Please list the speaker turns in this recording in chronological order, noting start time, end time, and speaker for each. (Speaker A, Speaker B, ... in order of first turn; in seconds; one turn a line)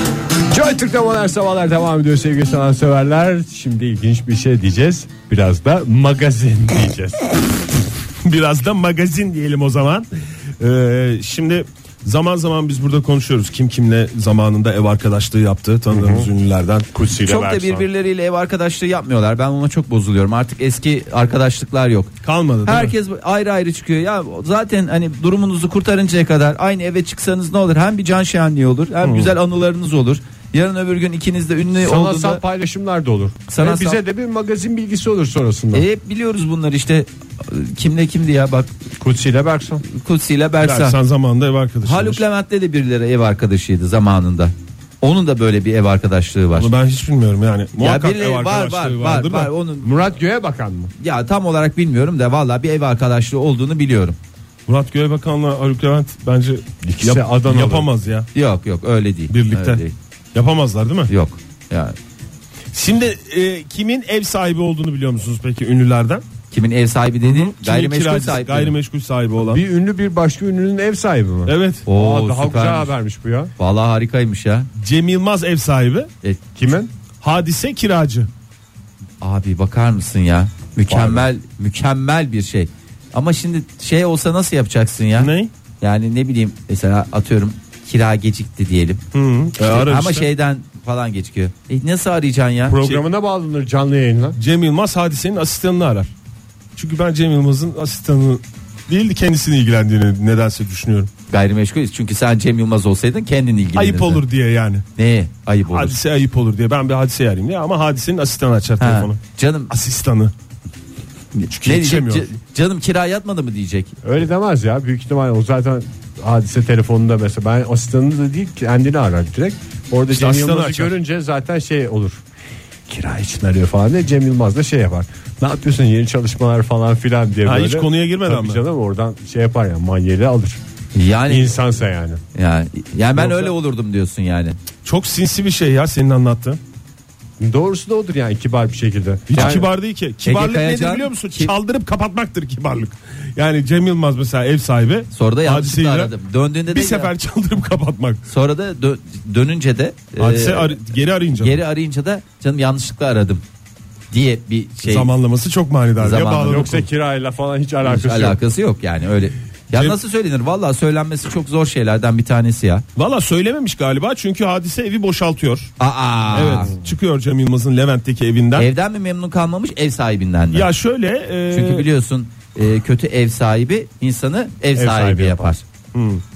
Speaker A: 0.5-7.4
Speaker B: 8.2-10.1
Speaker B: 10.6-16.9
Speaker A: 15.9-16.3
Speaker A: 16.9-17.9
Speaker C: 17.2-22.1
Speaker B: 22.2-22.9
Speaker C: 22.6-32.4
Speaker B: 29.0-29.3
Speaker A: 31.8-35.9
Speaker C: 33.5-34.0
Speaker C: 35.7-38.7
Speaker A: 39.0-39.8
Speaker C: 39.9-41.0
Speaker B: 40.6-42.2
Speaker C: 41.8-46.7
Speaker B: 46.5-49.5
Speaker C: 47.8-49.9
Speaker A: 49.8-50.9
Speaker C: 51.0-54.2
Speaker B: 54.7-58.2
Speaker A: 56.8-57.9
Speaker C: 58.3-59.9
Speaker B: 59.3-59.8
Speaker B: 60.3-61.1
Speaker C: 61.1-61.9
Speaker B: 62.7-66.2
Speaker C: 66.5-68.7
Speaker B: 67.2-69.6
Speaker A: 69.4-73.5
Speaker B: 71.5-71.8
Speaker C: 71.8-72.9
Speaker C: 73.6-74.7
Speaker B: 74.8-76.1
Speaker A: 76.5-76.9
Speaker B: 77.2-78.3
Speaker C: 79.2-89.0
Speaker A: 80.9-81.3
Speaker B: 85.2-85.5
Speaker B: 89.1-90.3
Speaker C: 89.6-92.8
Speaker A: 92.7-94.4
Speaker B: 94.4-96.1
Speaker B: 96.8-101.1
Speaker C: 101.3-104.2
Speaker B: 103.7-104.8
Speaker C: 105.0-106.0
Speaker B: 105.7-110.3
Speaker C: 108.8-109.7
Speaker C: 111.3-113.9
Speaker B: 111.5-112.3
Speaker A: 114.0-122.2
Speaker B: 120.1-120.9
Speaker A: 122.9-130.6
Speaker B: 127.5-128.6
Speaker C: 130.9-131.6
Speaker A: 131.3-132.2
Speaker C: 132.3-134.6
Speaker B: 133.2-133.5
Speaker B: 134.8-136.6
Speaker A: 137.4-139.7
Speaker B: 139.3-146.1
Speaker C: 139.3-139.6
Speaker C: 140.2-141.5
Speaker C: 145.1-147.1
Speaker B: 146.7-148.2
Speaker C: 148.3-153.4
Speaker B: 150.2-151.6
Speaker C: 154.1-155.1
Speaker B: 154.8-156.9
Speaker C: 156.0-156.7
Speaker A: 156.2-158.4
Speaker C: 157.8-162.8
Speaker B: 163.0-165.7
Speaker C: 165.8-166.7
Speaker B: 166.3-168.7
Speaker C: 168.6-170.7
Speaker B: 170.5-171.8
Speaker C: 171.5-175.6
Speaker A: 174.8-175.6
Speaker B: 175.9-176.2